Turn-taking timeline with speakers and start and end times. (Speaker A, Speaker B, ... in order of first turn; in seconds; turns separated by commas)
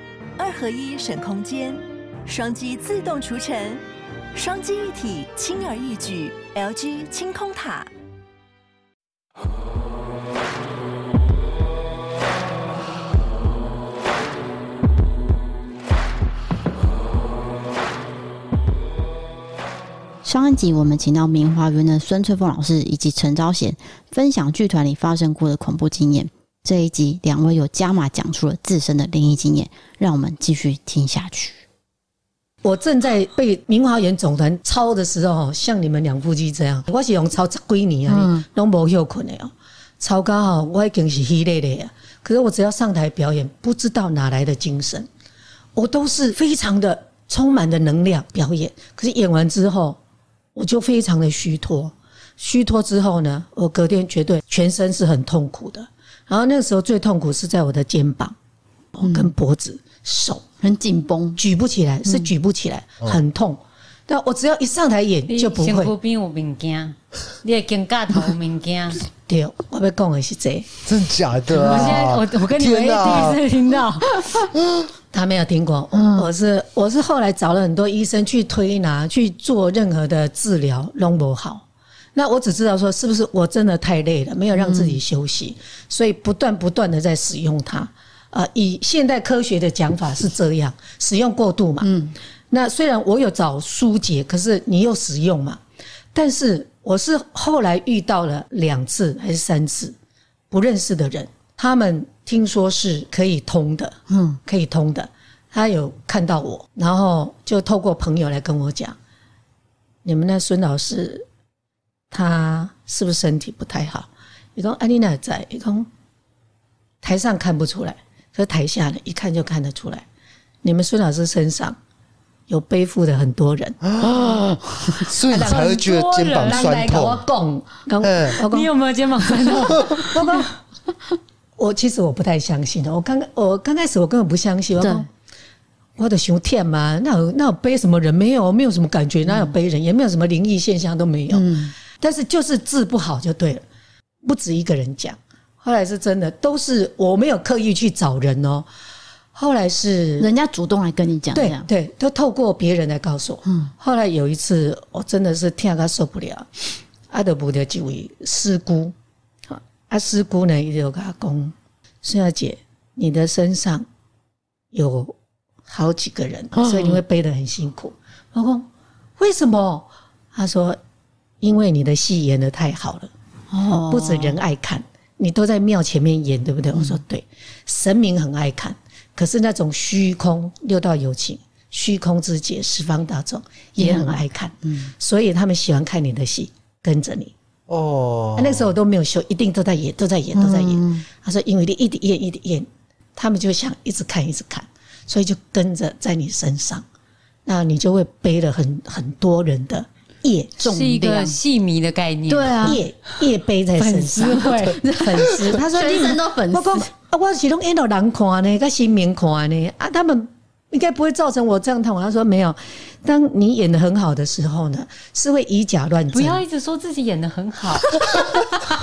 Speaker A: 0.4-7.9, Speaker B: 20.2-31.6, Speaker C: 32.6-45.1, Speaker B: 38.1-38.4, Speaker C: 45.8-50.0, Speaker C: 50.5-58.3, Speaker C: 59.0-60.4, Speaker B: 60.6-61.4, Speaker C: 61.4-66.0, Speaker D: 65.3-69.0, Speaker C: 69.3-70.7, Speaker E: 70.8-73.4, Speaker D: 71.5-74.4, Speaker C: 71.6-72.1, Speaker E: 74.4-74.8, Speaker C: 75.1-81.6, Speaker B: 76.0-76.2, Speaker C: 82.2-92.0, Speaker B: 84.6-85.0, Speaker B: 91.8-92.2, Speaker C: 92.5-95.6, Speaker C: 96.1-100.0, Speaker C: 100.5-109.0, Speaker B: 104.1-104.4, Speaker C: 110.0-111.2, Speaker C: 112.1-115.9, Speaker C: 117.0-120.0, Speaker C: 120.6-121.8, Speaker C: 122.5-123.8, Speaker E: 124.0-127.2, Speaker C: 125.2-125.8, Speaker D: 125.4-126.8, Speaker C: 126.4-128.7, Speaker E: 128.0-128.4, Speaker D: 128.4-130.5, Speaker C: 131.6-135.1, Speaker B: 134.8-135.1, Speaker C: 136.0-143.6, Speaker B: 139.3-139.5, Speaker B: 141.3-141.7, Speaker C: 144.2-148.7, Speaker C: 149.3-150.3, Speaker B: 150.2-151.7, Speaker C: 151.3-156.5, Speaker C: 157.1-158.9, Speaker C: 159.5-163.9, Speaker C: 164.7-165.2, Speaker C: 165.7-168.7, Speaker C: 169.2-170.8, Speaker C: 171.4-173.1, Speaker B: 173.5-174.4, Speaker C: 173.9-187.3, Speaker B: 183.8-184.8, Speaker E: 187.7-188.7, Speaker C: 188.4-196.8, Speaker B: 190.3-191.0, Speaker C: 197.5-200.6, Speaker B: 200.6-201.4, Speaker D: 200.6-202.8, Speaker B: 202.3-202.8, Speaker C: 202.6-216.4, Speaker D: 203.8-204.8, Speaker B: 204.6-206.9, Speaker D: 216.1-217.9